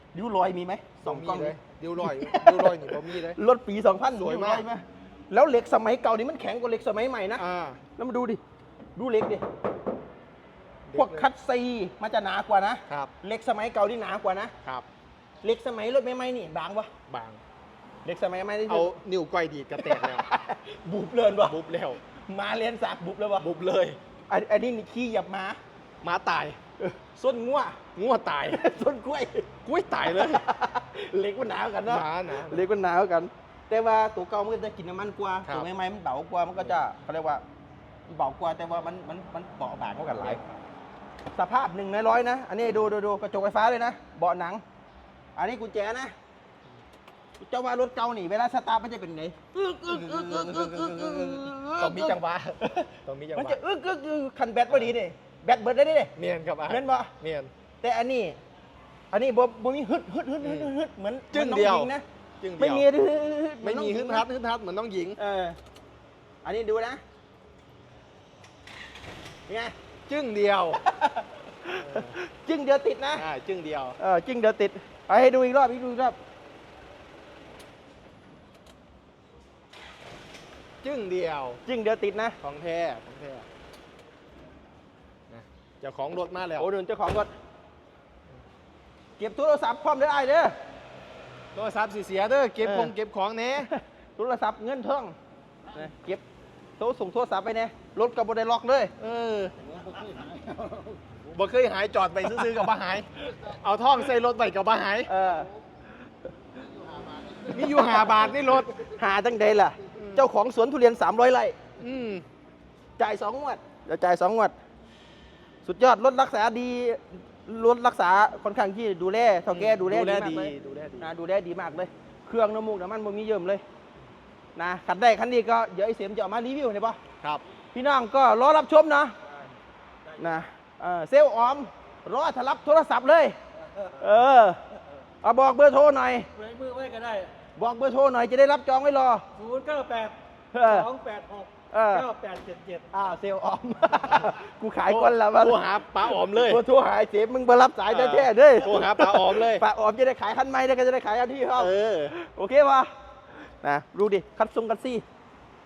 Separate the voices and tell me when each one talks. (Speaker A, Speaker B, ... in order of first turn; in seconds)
Speaker A: 0.1-7.4, 8.0-8.4, 8.9-9.4, 10.9-14.5, 15.4-16.9, 18.0-19.0, 19.8-23.5, 24.3-25.6, 26.8-27.8, 28.5-29.5, 30.1-37.4, 38.1-40.4, 41.3-44.6, 45.4-46.1, 47.4-52.2, 53.4-56.1, 56.7-57.1, 57.8-58.4, 59.1-62.0, 62.6-64.2, 65.2-65.6, 66.4-67.0, 69.5-69.7, 70.8-73.2, 74.0-76.2, 81.7-82.4, 86.6-87.3, 89.2-90.5, 92.6-92.9, 93.7-95.1, 95.7-96.2, 96.8-98.9, 105.0-105.5, 108.8-111.6, 113.0-114.5, 115.6-123.6, 124.5-127.0, 127.7-129.1, 130.2-133.3, 133.9-134.6, 135.2-136.3, 137.6-139.2, 140.5-140.9, 141.7-142.1, 142.9-145.6, 146.3-152.9, 153.6-155.0
Speaker B: 1.0-3.4, 4.2-4.7, 7.4-7.8, 10.9-11.3, 17.1-17.4, 18.7-20.2, 21.4-22.0, 23.4-24.0, 26.0-26.6, 27.9-28.6, 29.6-30.4, 31.8-32.7, 49.9-53.6, 56.1-57.5, 60.4-60.7, 61.3-62.9, 63.6-65.2, 70.1-70.8, 71.7-72.2, 73.2-74.0, 80.8-81.6, 82.4-83.5, 85.3-86.7, 91.5-93.7, 99.0-99.6, 101.3-105.1, 107.4-108.8, 110.0-110.2, 111.8-112.2, 119.5-121.1, 144.9-146.6, 147.9-149.6, 151.6-152.1
Speaker C: 136.4-137.3, 139.3-140.1, 140.8-142.9